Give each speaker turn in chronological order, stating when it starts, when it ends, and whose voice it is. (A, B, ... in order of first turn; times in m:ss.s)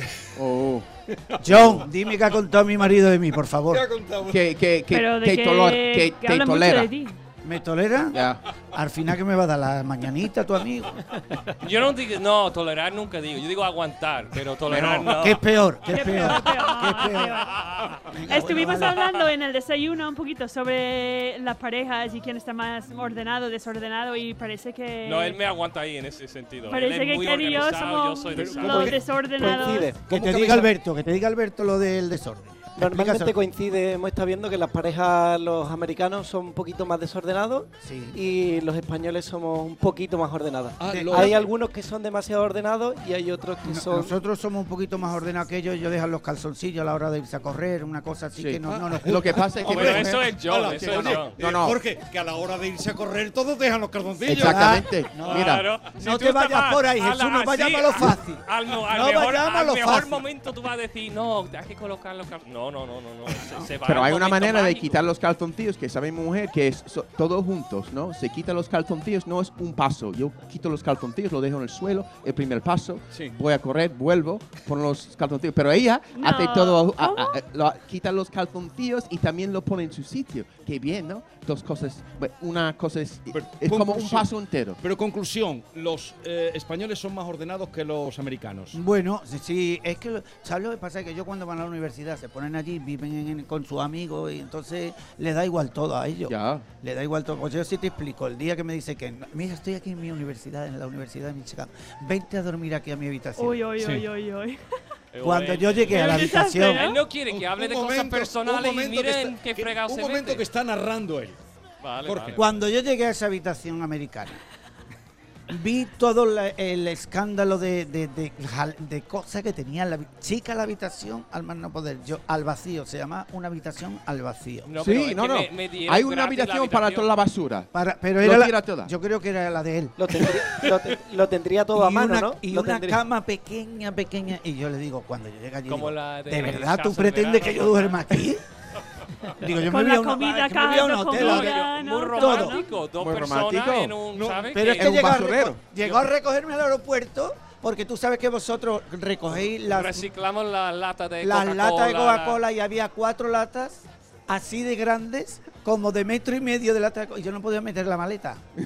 0:00.4-0:00.9 A
0:01.1-0:01.8 B
0:01.4-0:03.8 C
0:03.7-0:04.4 B
0:04.3-0:06.9 A
0:04.9-0:07.2 D
0:07.4-0:08.2 C
0:08.1-0:08.4 A
0:08.7-0:11.1 C
0:11.6-0:15.4 E
0:14.7-0:17.5 C
0:15.9-0:17.6 D
0:16.0-0:16.7 E
0:18.1-0:19.0 C
0:18.3-0:25.4 D
0:18.8-0:19.2 E
0:25.0-0:28.9 E
0:26.7-0:29.9 D
0:28.3-0:29.0 B
0:28.7-0:30.0 F
0:30.1-0:30.7 B
0:30.1-0:33.4 C
0:32.8-0:44.1 F
0:37.8-0:38.2 C
0:40.8-0:41.5 B
0:40.9-0:41.4 C
0:43.6-0:49.8 C
0:48.4-0:51.8 A
0:48.7-0:54.8 B
0:49.6-0:51.4 E
0:54.3-0:55.6 A
0:54.4-1:00.3 C
0:55.3-1:05.0 E
1:03.8-1:24.8 A
1:16.1-1:17.3 D
1:23.3-1:24.3 B
1:24.8-1:28.8 B
1:28.7-1:43.7 C
1:36.3-1:36.6 A
1:43.4-1:44.6 D
1:43.8-1:44.0 B
1:45.1-1:50.4 E
1:45.2-1:46.9 C
1:45.9-1:47.0 D
1:47.3-1:51.4 B
1:51.8-1:52.7 E
1:52.0-1:52.4 B
1:52.4-1:54.4 C
1:55.5-2:04.7 C
2:04.7-2:07.2 E
2:04.8-2:07.7 A
2:07.7-2:10.0 C
2:08.2-2:08.9 A
2:10.0-2:13.0 F
2:11.8-2:18.4 C
2:15.7-2:18.2 E
2:19.4-2:22.6 C
2:19.7-2:22.7 D
2:21.2-2:25.2 E
2:23.0-2:24.0 A
2:24.6-2:30.1 C
2:24.6-2:25.7 A
2:29.6-2:32.4 E
2:31.2-2:38.4 C